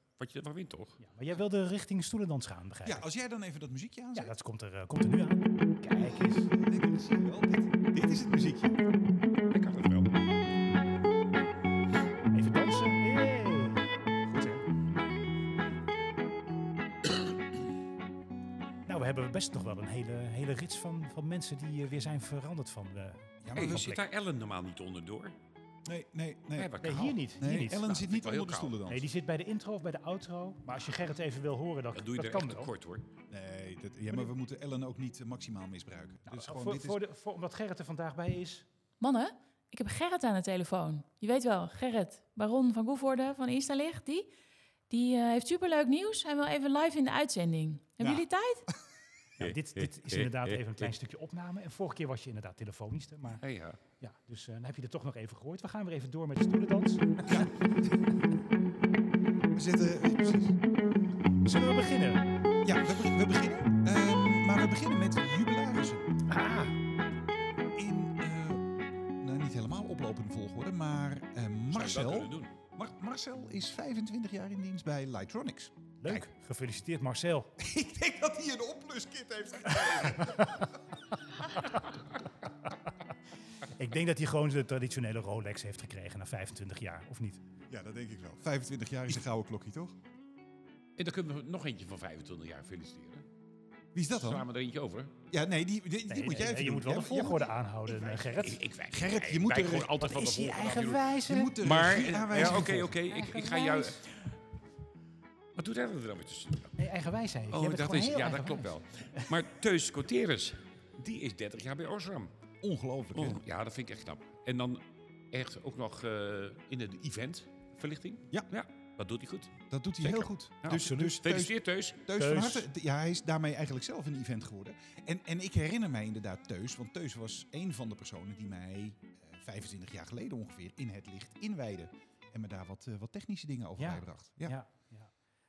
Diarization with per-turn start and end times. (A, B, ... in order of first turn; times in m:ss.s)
0:00.2-0:01.0 A
0:01.0-0:03.0 B
0:02.8-0:04.3 C
0:04.1-0:06.5 B
0:06.0-0:08.8 C
0:09.5-0:10.2 A
0:12.3-0:14.6 B
0:18.8-0:24.0 B
0:23.4-0:23.9 C
0:23.5-0:25.3 A
0:25.8-0:29.1 C
0:26.5-0:28.8 A
0:26.8-0:28.0 B
0:28.9-0:32.7 B
0:31.9-0:33.1 A
0:33.3-0:37.0 C
0:36.2-0:38.6 B
0:39.0-0:44.3 D
0:44.9-0:48.7 D
0:49.4-0:50.9 A
0:49.4-0:53.4 B
0:53.3-0:53.8 A
0:54.0-0:57.6 B
0:57.2-0:57.9 C
0:59.5-1:00.6 C
1:01.4-1:02.2 B
1:02.6-1:06.2 C
1:06.3-1:06.8 B
1:07.7-1:16.3 C
1:11.7-1:12.5 A
1:16.0-1:17.5 B
1:17.6-1:20.8 C
1:20.2-1:20.7 B
1:23.6-1:27.4 B
1:27.7-1:30.0 C
1:31.0-1:33.2 A
1:33.9-1:34.4 C
1:34.1-1:35.1 A
1:35.3-1:37.5 C
1:36.1-1:38.6 B
1:38.1-1:44.0 A
1:38.9-1:40.0 C
1:40.0-1:41.6 B
1:41.2-1:43.0 C
1:42.4-1:44.2 B
1:45.6-1:46.7 A
1:46.8-1:49.5 B
1:47.5-1:52.3 A
1:52.6-1:53.4 C
1:53.1-2:02.1 A
1:59.7-2:14.6 C
2:00.7-2:01.2 B
2:02.2-2:02.7 B
2:13.8-2:15.1 B